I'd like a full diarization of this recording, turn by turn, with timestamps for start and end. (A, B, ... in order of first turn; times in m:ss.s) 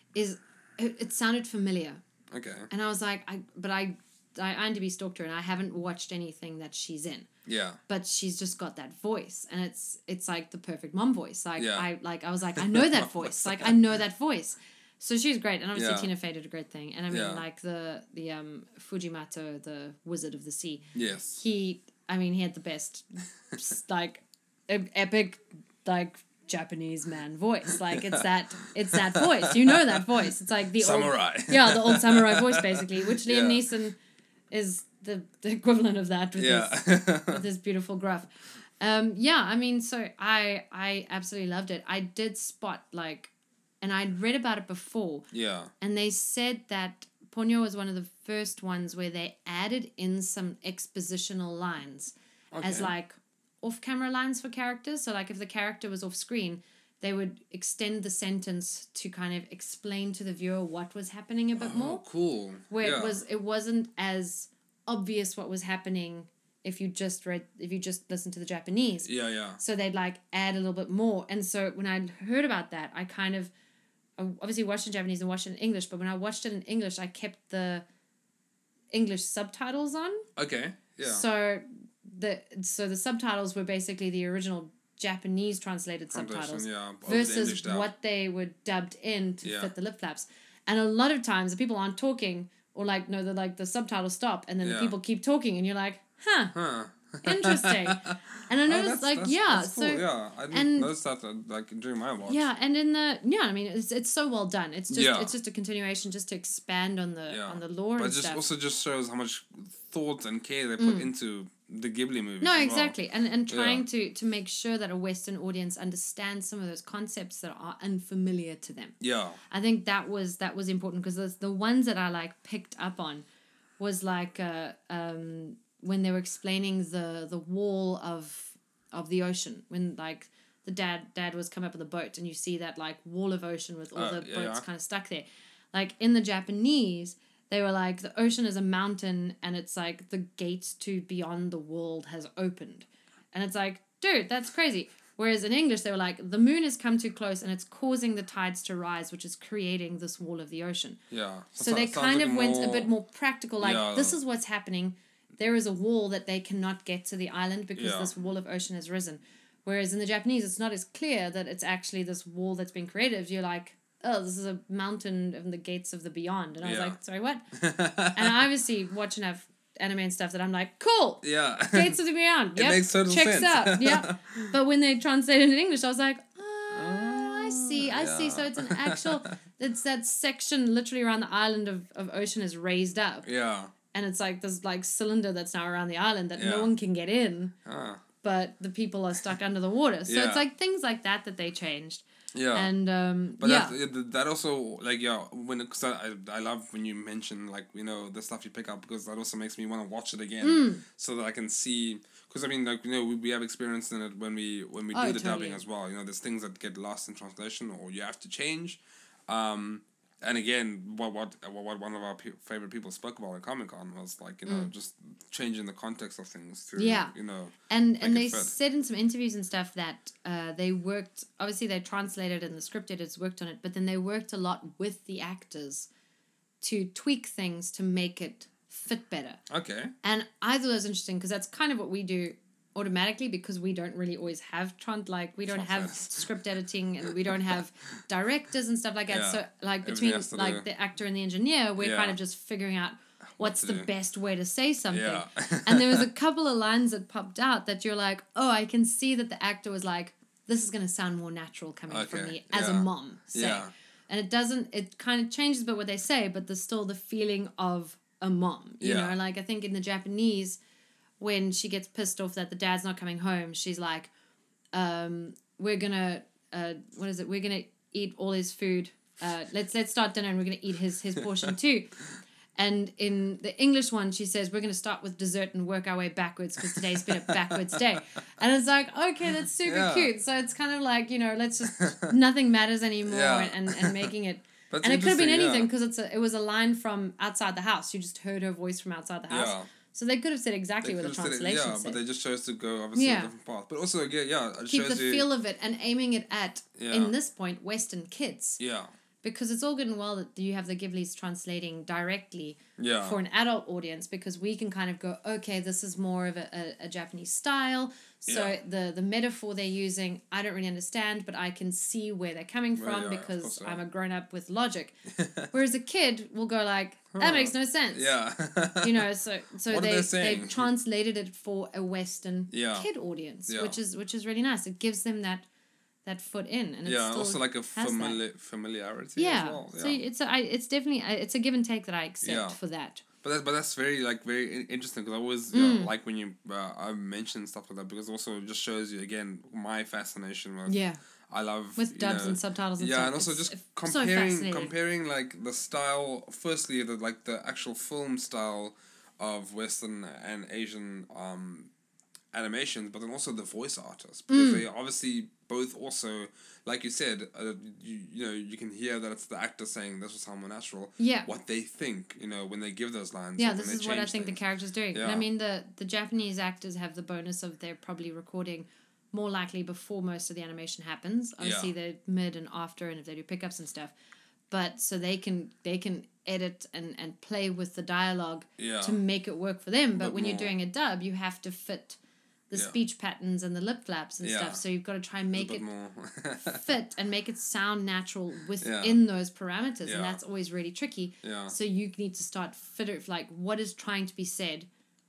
0:00.1-0:02.0 A
0:02.3-0:02.7 B
0:02.7-0:07.3 A
0:07.4-0:07.8 B
0:07.9-0:34.0 A
0:11.6-0:11.9 B
0:12.6-0:13.8 B
0:15.7-0:16.1 B
0:17.1-0:17.4 B
0:20.9-0:21.4 B
0:27.8-0:28.3 B
0:28.9-0:33.7 B
0:34.5-0:45.3 A
0:36.4-0:37.4 B
0:45.3-0:45.7 B
0:45.8-1:02.0 A
0:52.5-0:52.9 B
1:01.6-1:03.2 B
1:02.7-1:13.5 A
1:09.0-1:09.6 B
1:14.2-1:17.8 A
1:18.9-1:20.2 A
1:20.4-1:21.2 B
1:21.0-1:36.5 A
1:26.1-1:27.9 B
1:29.4-1:29.7 B
1:34.6-1:34.9 B
1:36.5-1:38.1 B
1:37.2-1:40.9 A
1:38.6-1:42.5 B
1:42.3-1:48.4 A
1:44.9-1:45.3 B
1:47.3-1:52.9 B
1:50.8-1:51.1 A
1:52.4-1:58.9 A
1:53.5-1:53.8 B
1:59.0-1:59.4 B
1:59.5-2:03.2 A
2:03.8-2:31.0 A
2:13.9-2:14.6 B
2:31.1-2:32.9 B
2:31.6-2:47.4 A
2:33.6-2:34.2 B
2:37.8-2:38.1 B
2:46.6-2:47.0 B
2:47.5-2:48.4 B
2:48.1-3:03.3 A
2:51.2-2:52.0 B
2:52.6-2:54.5 B
2:56.7-2:59.3 B
3:03.2-3:03.7 B
3:03.9-3:07.5 A
3:06.4-3:06.7 B
3:07.6-3:08.0 B
3:08.2-3:13.8 A
3:10.0-3:10.4 B
3:12.3-3:12.7 B
3:13.4-3:38.5 B
3:20.4-3:20.8 A
3:24.9-3:25.6 A
3:34.4-3:34.7 A
3:36.8-3:37.1 A
3:37.7-3:45.9 A
3:46.6-3:49.4 A
3:49.5-3:49.9 B
3:50.0-4:20.6 A
3:55.5-3:56.4 B
3:57.0-3:57.6 B
3:59.1-4:00.6 B
4:01.8-4:02.2 B
4:03.4-4:03.9 B
4:04.9-4:06.1 B
4:11.9-4:13.7 B
4:18.8-4:19.2 B
4:21.2-4:24.1 A
4:24.7-4:31.9 A
4:31.2-4:31.5 B
4:32.6-4:52.0 A
4:36.6-4:38.0 B
4:39.4-4:40.1 B
4:41.8-4:42.1 B
4:43.0-4:44.1 B
4:44.7-4:45.7 B
4:49.3-4:49.7 B
4:50.8-4:55.2 B
4:52.9-4:53.3 A
4:54.7-4:58.6 A
4:56.8-4:57.1 B
4:58.6-4:58.9 B
4:59.2-5:15.0 A
5:02.8-5:03.2 B
5:08.2-5:08.6 B
5:12.8-5:13.8 B
5:15.1-5:15.5 B
5:15.5-5:18.1 A
5:17.1-5:19.0 B
5:18.8-5:25.4 A
5:19.7-5:20.7 B
5:22.5-5:22.9 B
5:23.5-5:23.8 B
5:26.0-5:28.2 A
5:26.8-5:30.0 B
5:29.2-5:33.0 A
5:32.2-5:32.6 B
5:33.2-5:40.8 B
5:35.5-5:35.9 A
5:40.7-5:41.0 A
5:41.3-5:51.7 B
5:41.8-5:44.7 A
5:52.3-6:04.4 B
5:54.3-5:54.6 A
6:01.0-6:01.3 A
6:03.4-6:13.9 A
6:04.9-6:05.3 B
6:11.4-6:11.7 B
6:14.5-6:22.0 A
6:18.6-6:19.0 B
6:20.0-6:20.5 B
6:22.5-6:25.6 A
6:24.2-6:24.6 B
6:25.3-6:26.8 B
6:26.5-6:34.7 A
6:28.6-6:29.0 B
6:29.8-6:30.2 B
6:31.2-6:31.5 B